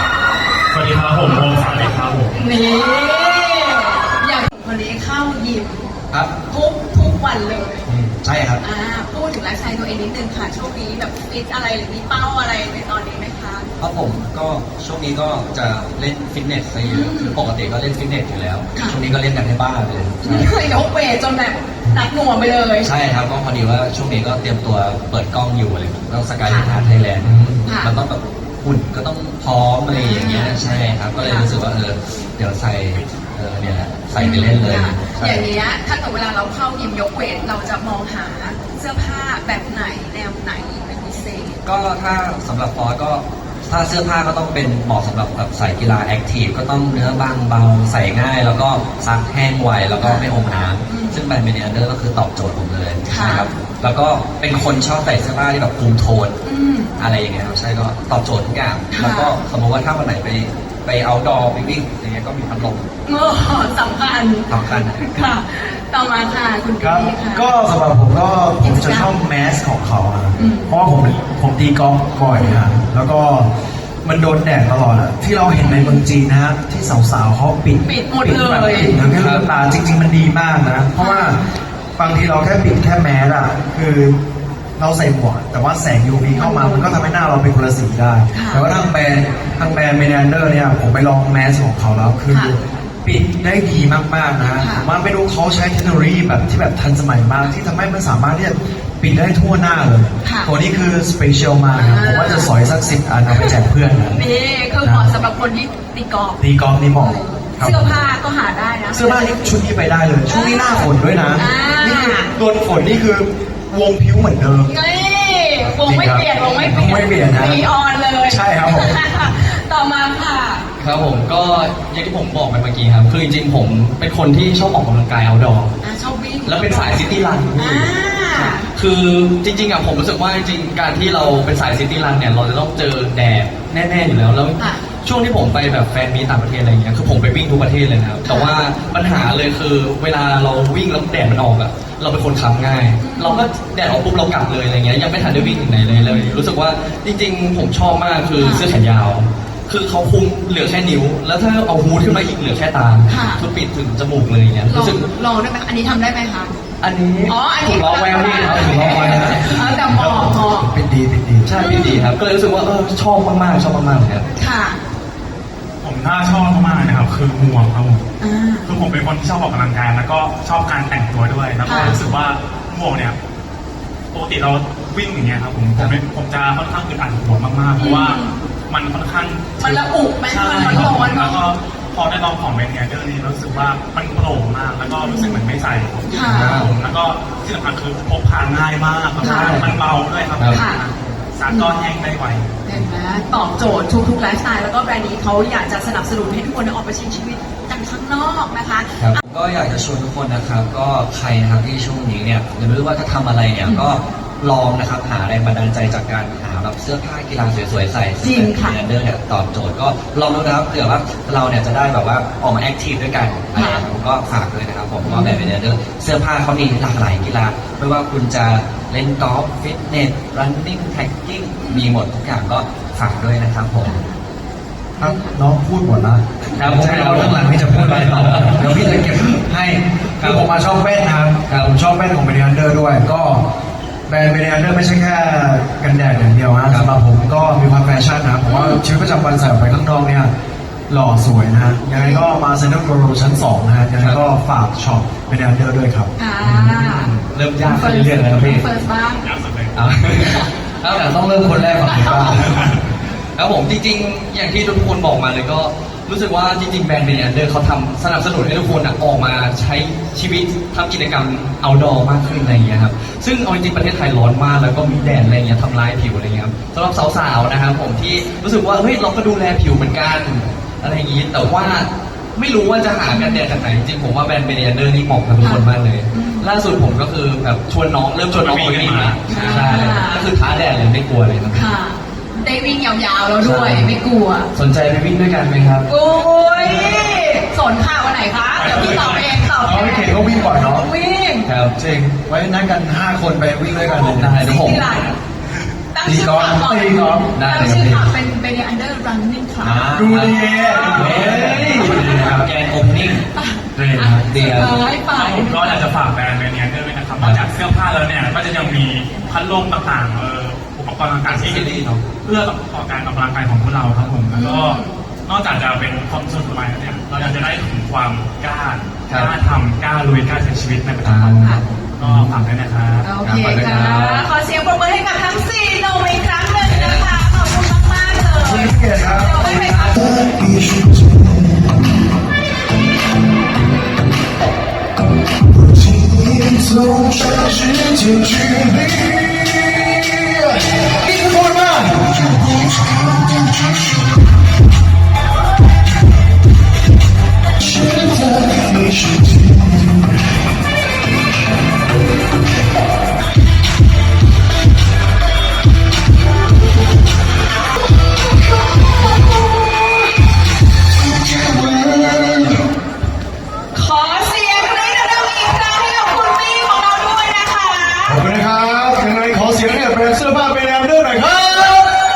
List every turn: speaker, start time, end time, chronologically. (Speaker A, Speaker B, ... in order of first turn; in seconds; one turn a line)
Speaker A: 0.7-2.4
Speaker B: 2.3-5.8
Speaker B: 6.4-7.8
Speaker C: 7.9-8.6
Speaker B: 8.6-13.7
Speaker C: 13.8-20.5
Speaker B: 16.8-17.4
Speaker B: 20.2-22.9
Speaker C: 22.8-35.5
Speaker D: 26.6-27.6
Speaker B: 27.6-27.9
Speaker B: 29.9-31.5
Speaker B: 34.2-41.6
Speaker C: 41.6-56.4
Speaker B: 50.0-50.3
Speaker B: 50.9-51.2
Speaker B: 53.0-53.5
Speaker B: 56.4-56.9
Speaker C: 57.0-62.9
Speaker B: 58.9-59.4
Speaker B: 63.0-67.5
Speaker C: 64.5-65.3
Speaker E: 66.8-73.5
Speaker B: 68.6-69.1
Speaker B: 70.3-70.7
Speaker B: 72.3-72.6
Speaker E: 74.0-81.4
Speaker B: 75.6-76.0
Speaker B: 77.8-79.0
Speaker D: 79.0-79.4
Speaker B: 81.0-81.4
Speaker E: 82.0-84.2
Speaker E: 84.8-104.2
Speaker B: 86.3-86.9
Speaker B: 88.3-88.7
Speaker B: 92.3-92.5
Speaker B: 94.6-94.9
Speaker B: 100.2-100.5
Speaker B: 101.7-102.5
Speaker B: 103.3-103.6
Speaker B: 104.1-106.4
Speaker E: 104.8-105.1
Speaker E: 106.4-108.0
Speaker B: 107.0-109.6
Speaker E: 108.9-114.7
Speaker B: 110.2-112.3
Speaker B: 114.7-120.6
Speaker E: 115.8-117.7
Speaker E: 118.3-119.1
Speaker D: 120.8-125.7
Speaker B: 125.8-127.0
Speaker D: 126.4-155.1
Speaker B: 127.5-128.7
Speaker B: 134.6-134.8
Speaker B: 138.2-138.6
Speaker B: 143.0-143.5
Speaker B: 146.0-146.4
Speaker B: 148.3-148.7
Speaker B: 153.1-153.4
Speaker B: 154.7-156.5
Speaker D: 156.8-159.7
Speaker B: 157.2-160.7
Speaker E: 158.7-161.5
Speaker D: 161.4-164.2
Speaker B: 161.6-162.1
Speaker B: 164.4-164.8
Speaker A: 165.8-168.0
Speaker B: 168.2-168.7
Speaker A: 168.7-173.2
Speaker B: 171.6-172.0
Speaker D: 171.7-172.0
Speaker A: 174.1-192.6
Speaker B: 177.8-178.3
Speaker B: 179.6-181.4
Speaker D: 180.6-181.0
Speaker B: 184.9-185.4
Speaker B: 186.1-186.6
Speaker D: 186.2-186.7
Speaker B: 189.2-189.6
Speaker D: 189.2-189.7
Speaker D: 190.4-190.6
Speaker B: 190.5-190.8
Speaker B: 192.6-199.2
Speaker C: 199.2-224.0
Speaker B: 208.2-208.8
Speaker B: 213.5-213.8
Speaker B: 215.0-215.5
Speaker B: 221.6-221.9
Speaker E: 225.0-233.4
Speaker D: 226.5-229.1
Speaker D: 230.2-230.4
Speaker D: 231.5-231.7
Speaker E: 234.1-240.3
Speaker B: 238.4-238.8
Speaker E: 240.9-246.1
Speaker B: 241.9-242.2
Speaker D: 244.0-244.2
Speaker B: 246.2-249.2
Speaker D: 246.4-248.7
Speaker A: 249.2-249.8
Speaker D: 249.7-251.2
Speaker E: 250.9-252.7
Speaker B: 251.8-252.4
Speaker D: 251.8-252.6
Speaker D: 253.3-281.7
Speaker B: 262.2-262.6
Speaker B: 264.8-265.3
Speaker B: 273.1-273.4
Speaker B: 275.4-276.5
Speaker A: 278.3-279.9
Speaker B: 279.3-280.3
Speaker B: 281.5-284.5
Speaker D: 283.4-283.9
Speaker D: 284.5-285.9
Speaker B: 285.9-291.5
Speaker A: 288.5-289.5
Speaker E: 289.6-290.9
Speaker D: 291.4-291.7
Speaker E: 291.7-294.5
Speaker D: 293.8-295.1
Speaker B: 294.4-295.2
Speaker B: 295.9-299.9
Speaker E: 296.0-297.3
Speaker D: 297.3-298.1
Speaker C: 299.6-303.2
Speaker E: 299.9-302.5
Speaker D: 300.9-302.2
Speaker B: 303.3-305.8
Speaker E: 303.7-304.2
Speaker C: 304.2-304.7
Speaker A: 305.1-323.1
Speaker C: 311.2-312.0
Speaker B: 314.3-315.0
Speaker D: 319.1-319.3
Speaker D: 321.0-322.4
Speaker B: 321.3-321.6
Speaker B: 323.0-330.1
Speaker D: 323.2-324.3
Speaker D: 326.6-327.1
Speaker E: 328.4-331.8
Speaker E: 335.5-339.4
Speaker E: 339.9-344.1
Speaker E: 347.6-350.0
Speaker E: 361.1-362.6
Speaker B: 363.7-368.2
Speaker E: 368.1-371.9